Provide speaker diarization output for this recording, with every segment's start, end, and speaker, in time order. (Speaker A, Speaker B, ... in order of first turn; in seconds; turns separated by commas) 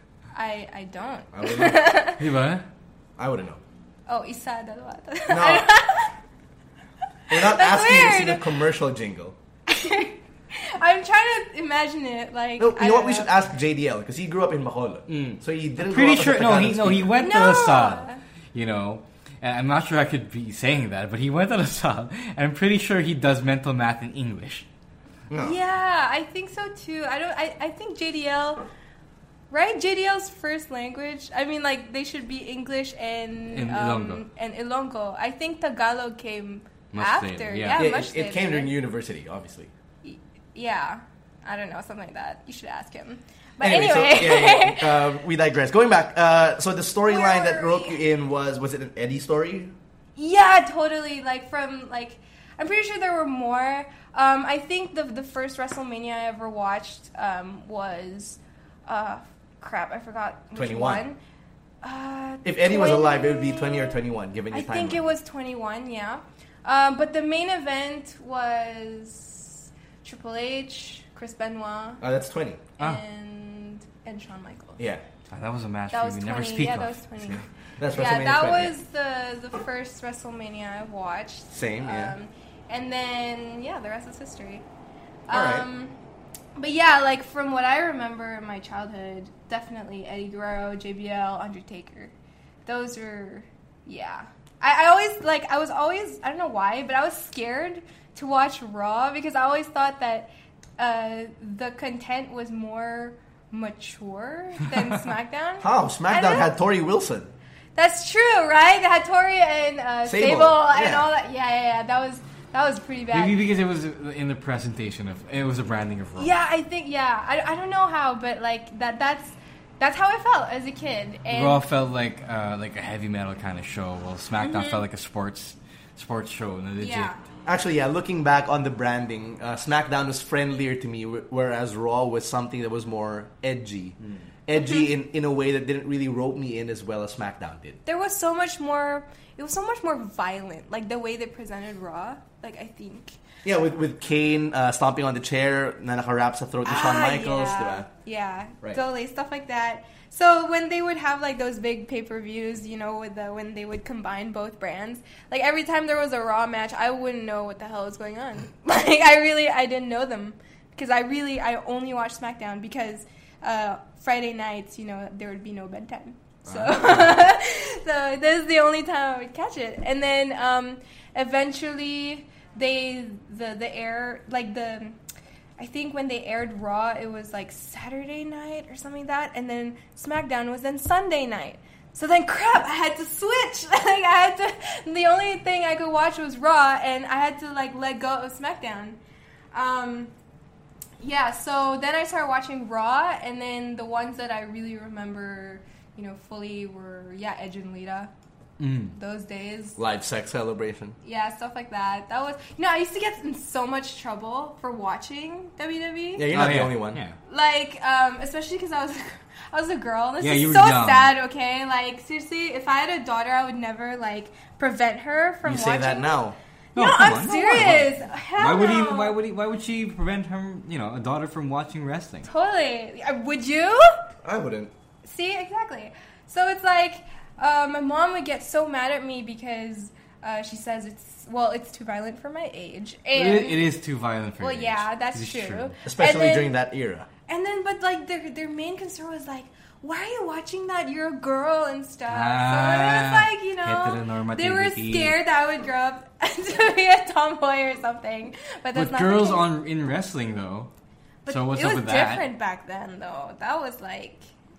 Speaker A: 0.3-2.2, Speaker B: 1.3-2.0, Speaker C: 2.2-2.6, Speaker B: 3.2-3.6, Speaker A: 4.1-6.1, Speaker B: 5.3-5.8, Speaker A: 7.3-8.6, Speaker B: 7.3-9.4, Speaker A: 9.7-13.3, Speaker B: 12.6-17.1, Speaker C: 15.1-24.7, Speaker A: 17.2-18.2, Speaker B: 25.3-25.6, Speaker A: 25.4-28.6, Speaker A: 29.5-38.7, Speaker C: 33.5-34.2, Speaker C: 36.9-37.8, Speaker B: 37.7-39.7, Speaker A: 40.0-45.1, Speaker B: 43.6-49.7, Speaker A: 47.1-48.0, Speaker A: 50.2-61.2, Speaker B: 60.5-61.1, Speaker A: 61.8-64.0, Speaker B: 62.4-65.1, Speaker A: 64.5-72.0, Speaker B: 72.0-72.7, Speaker A: 72.8-74.8, Speaker B: 74.8-75.0, Speaker C: 75.3-77.4, Speaker A: 75.9-84.7, Speaker B: 77.8-78.8, Speaker B: 81.5-82.2, Speaker A: 85.3-86.0, Speaker B: 85.3-85.7, Speaker A: 86.6-92.1, Speaker A: 92.7-106.5, Speaker B: 105.6-107.3, Speaker A: 107.8-113.4, Speaker B: 110.0-111.1, Speaker C: 113.1-116.3, Speaker A: 116.2-121.6, Speaker C: 121.3-127.1, Speaker A: 124.4-124.8, Speaker A: 126.8-127.2, Speaker B: 127.5-137.8, Speaker A: 134.6-134.9, Speaker A: 137.9-143.2, Speaker B: 143.4-147.9, Speaker A: 146.7-175.0, Speaker B: 166.4-167.2, Speaker A: 175.6-189.0, Speaker A: 189.5-190.1, Speaker A: 191.0-198.1, Speaker C: 198.6-199.0, Speaker A: 198.9-199.8, Speaker B: 199.8-201.0, Speaker A: 201.0-206.3, Speaker B: 206.2-207.0, Speaker C: 206.3-207.2, Speaker A: 207.3-216.2, Speaker C: 210.2-211.1, Speaker B: 215.4-216.4, Speaker A: 216.8-219.2, Speaker C: 216.8-222.3, Speaker A: 222.2-224.0, Speaker B: 224.2-224.7, Speaker A: 225.0-233.7, Speaker C: 233.2-235.7, Speaker A: 234.4-236.5, Speaker B: 235.9-237.1, Speaker A: 237.3-249.5, Speaker C: 242.1-245.2, Speaker C: 248.7-250.7, Speaker A: 251.2-254.3, Speaker C: 251.3-252.3